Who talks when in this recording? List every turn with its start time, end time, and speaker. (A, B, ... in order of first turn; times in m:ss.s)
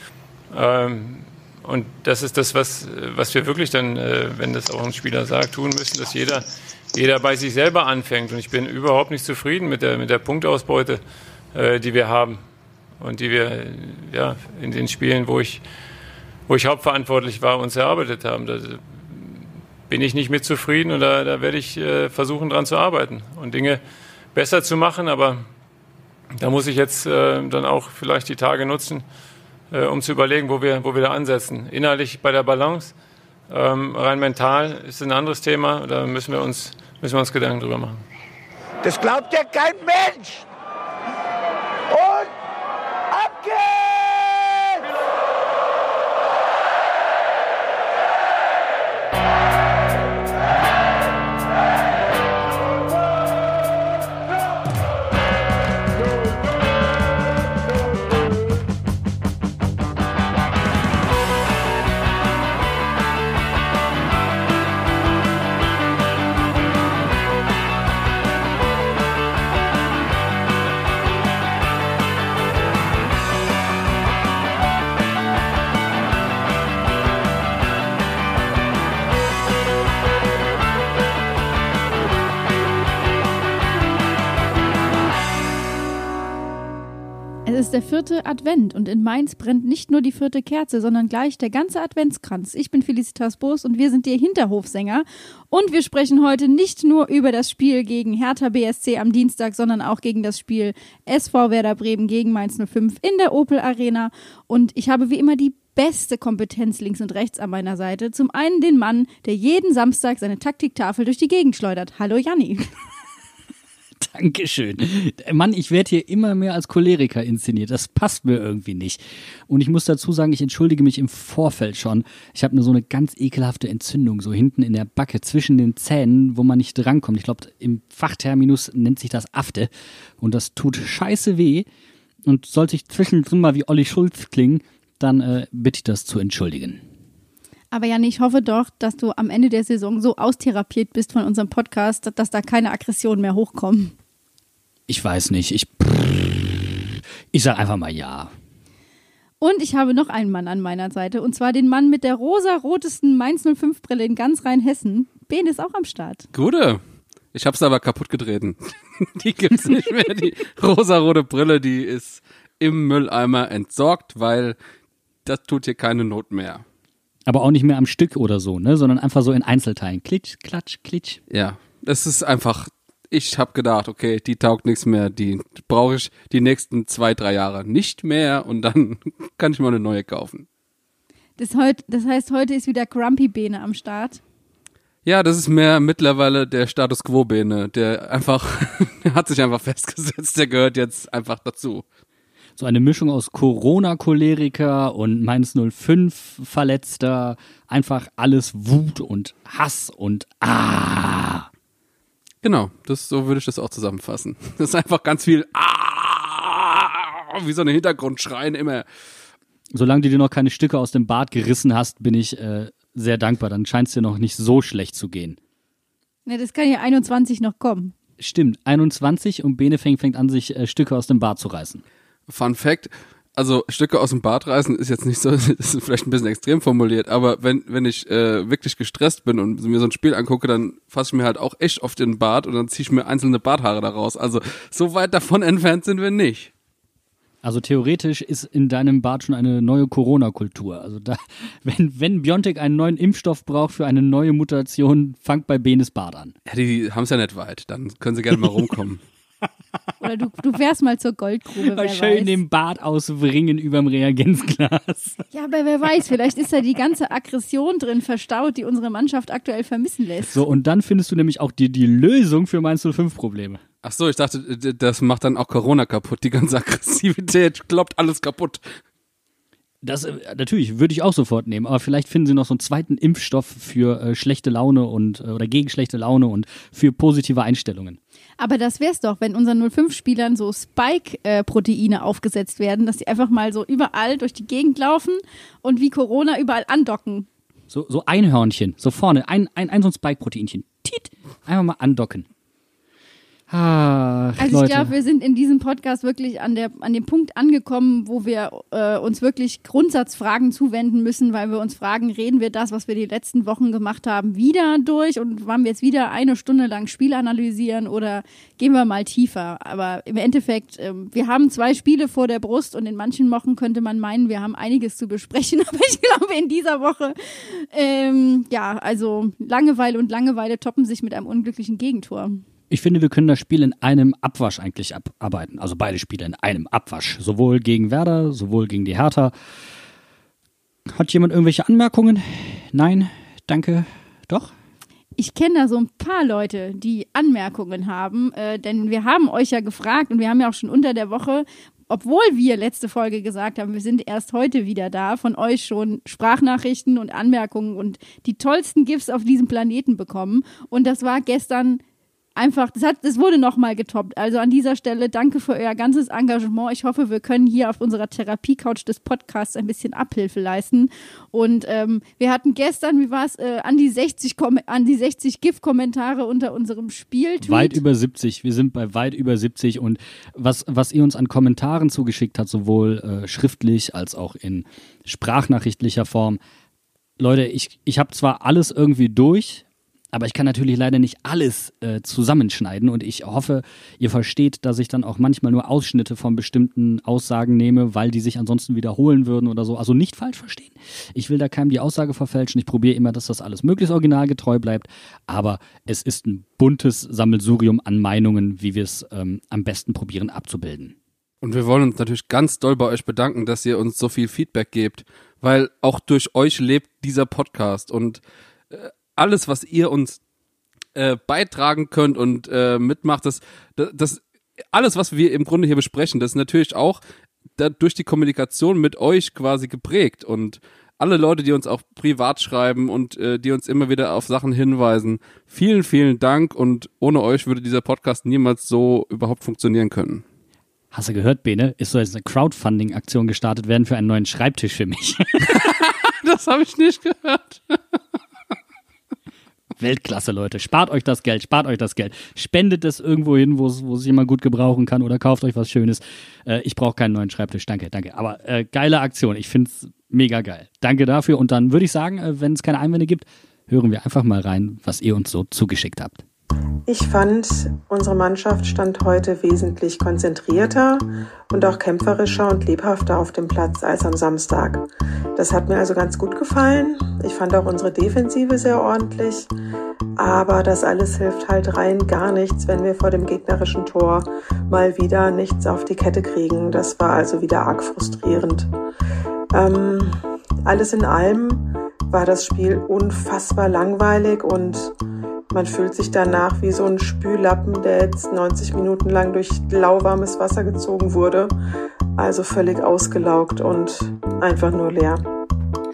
0:00.5-0:12.4 A
0:13.0-0:15.6 A
0:16.5-0:25.5 A
0:26.4-0:29.1 A
0:29.7-0:33.0 A
0:33.5-0:38.0 A
0:38.8-0:40.5 B
0:41.9-0:42.3 B
0:43.1-0:44.8 B
1:27.5-1:52.7 C
1:54.0-2:11.7 D
2:12.3-2:16.8 D
2:17.7-2:23.9 C
2:24.9-2:28.3 D
2:29.4-2:36.3 C
2:36.3-2:36.8 E
2:37.3-2:44.6 E
2:45.2-2:46.6 E
2:47.3-2:51.2 D
2:51.3-3:00.5 E
3:01.4-3:04.2 C
3:05.0-3:11.8 E
3:12.6-3:21.5 D
3:22.4-3:28.8 E
3:29.7-3:35.4 D
3:36.3-3:37.9 C
3:38.2-3:41.8 D
3:42.3-3:56.5 E
3:57.4-4:06.4 D
4:06.5-4:09.0 E
4:10.0-4:12.4 C
4:11.6-4:15.2 D
4:15.3-4:20.4 C
4:20.3-4:23.6 D
4:23.8-4:28.8 E
4:29.8-4:38.0 D
4:38.4-4:47.3 C
4:47.7-4:52.3 D
4:53.5-4:54.9 D
4:54.4-5:22.4 C
5:22.7-5:29.3 D
5:30.9-5:34.5 D
5:35.2-5:51.8 C
5:52.4-6:07.8 C
6:07.4-6:16.4 D
6:17.2-6:41.0 D
6:41.4-6:50.2 E
6:51.0-6:57.0 E
6:57.6-7:10.2 E
7:10.9-7:15.7 D
7:15.5-7:17.8 E
7:19.8-7:36.2 D
7:36.9-7:49.5 F
7:50.2-7:58.7 F
7:59.5-8:04.9 F
8:05.5-8:11.5 F
8:12.2-8:15.2 F